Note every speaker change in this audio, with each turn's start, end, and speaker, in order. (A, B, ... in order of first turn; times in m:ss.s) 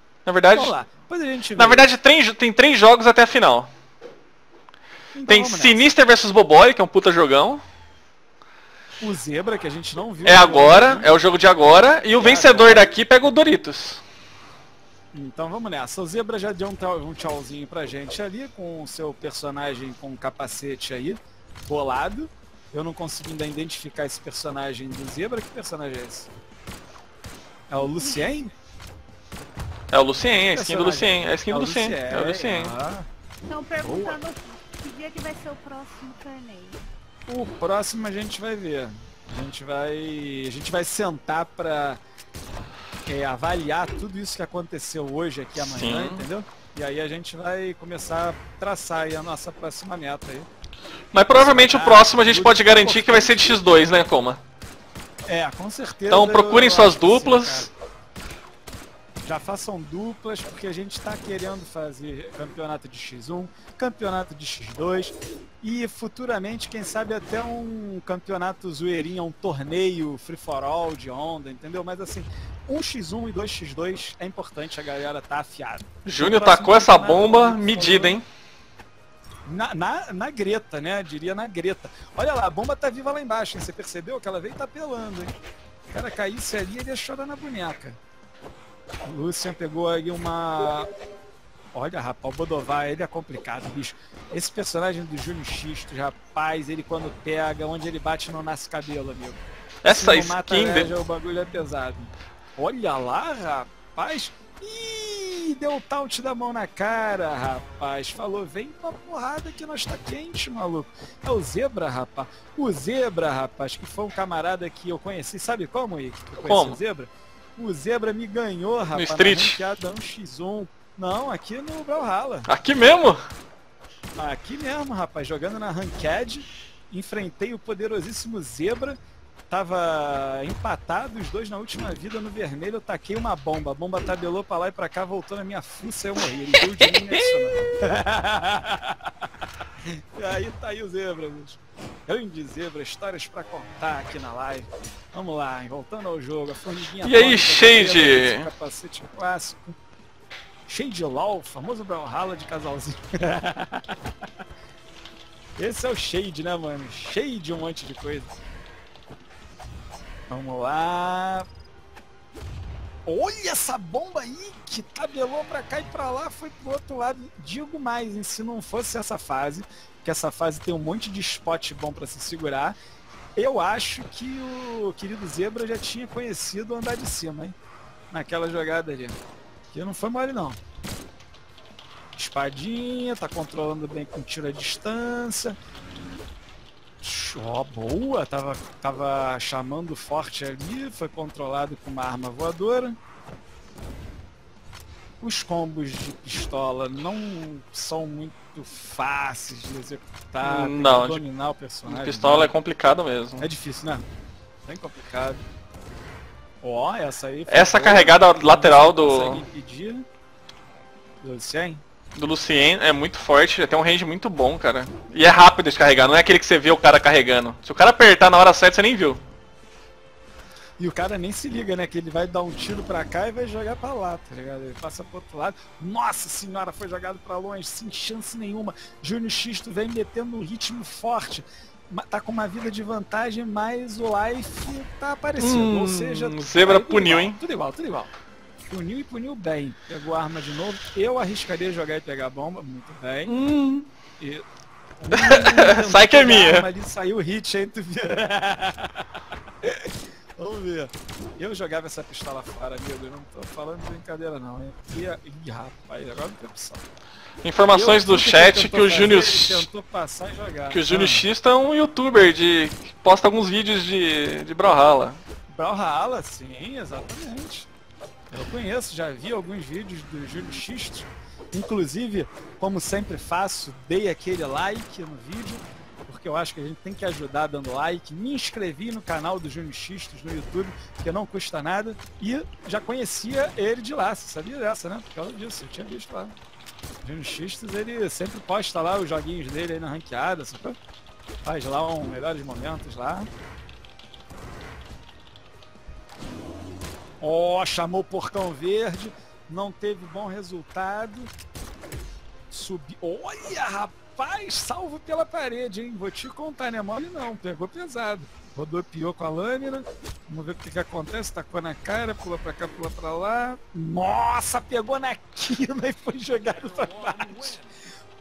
0:00.2-0:00.7 A
0:00.5-0:01.9 B
0:01.6-0:03.7 A
0:05.1-0:05.8 B
0:05.3-0:07.6 A
0:09.0-0:11.1 B
0:10.2-0:14.0 A
0:12.2-0:13.0 B
0:15.1-0:26.3 B
0:27.7-0:28.5 B
0:27.9-0:28.4 C
0:29.9-0:32.7 A
0:30.4-0:33.1 B
0:33.4-0:36.8 C
0:33.8-0:34.2 B
0:37.3-0:42.0 B
0:43.0-0:50.5 B
0:45.5-0:46.3 A
0:51.1-0:54.4 A
0:51.3-0:53.6 B
0:55.3-0:57.7 B
0:56.1-0:57.7 A
0:59.2-1:18.2 B
1:16.0-1:18.2 A
1:19.4-1:25.4 B
1:25.9-1:28.0 B
1:29.0-1:30.9 B
1:31.7-2:02.5 B
1:39.8-1:40.9 A
1:56.3-1:56.8 A
1:58.9-1:59.6 A
2:02.5-2:03.2 A
2:04.2-2:09.0 B
2:09.5-2:19.3 B
2:16.6-2:17.2 A
2:19.8-2:29.8 B
2:27.0-2:28.5 A
2:30.7-2:34.0 B
2:35.6-2:38.3 B
2:40.3-2:41.5 B
2:43.0-2:52.8 B
2:53.4-2:57.6 B
2:58.1-2:59.2 B
2:59.7-3:00.6 B
3:02.2-3:05.6 B
3:07.0-3:13.0 B
3:15.2-3:22.5 B
3:20.4-3:21.2 A
3:21.8-3:23.5 A
3:23.4-3:24.0 B
3:24.6-3:25.4 B
3:26.6-3:30.0 B
3:27.5-3:29.4 A
3:31.2-3:31.8 B
3:32.1-3:39.2 A
3:40.8-3:58.1 B
3:55.4-3:57.4 A
3:58.7-4:03.4 B
4:03.3-4:03.9 A
4:04.2-4:04.4 B
4:05.0-4:09.1 B
4:05.1-4:06.7 A
4:09.6-4:16.8 B
4:17.4-4:19.7 A
4:17.7-4:21.2 B
4:20.7-4:25.2 A
4:25.5-4:27.7 B
4:28.3-4:46.4 B
4:47.0-4:50.8 B
4:51.4-4:53.3 B
4:57.2-5:01.3 B
5:02.5-5:17.7 B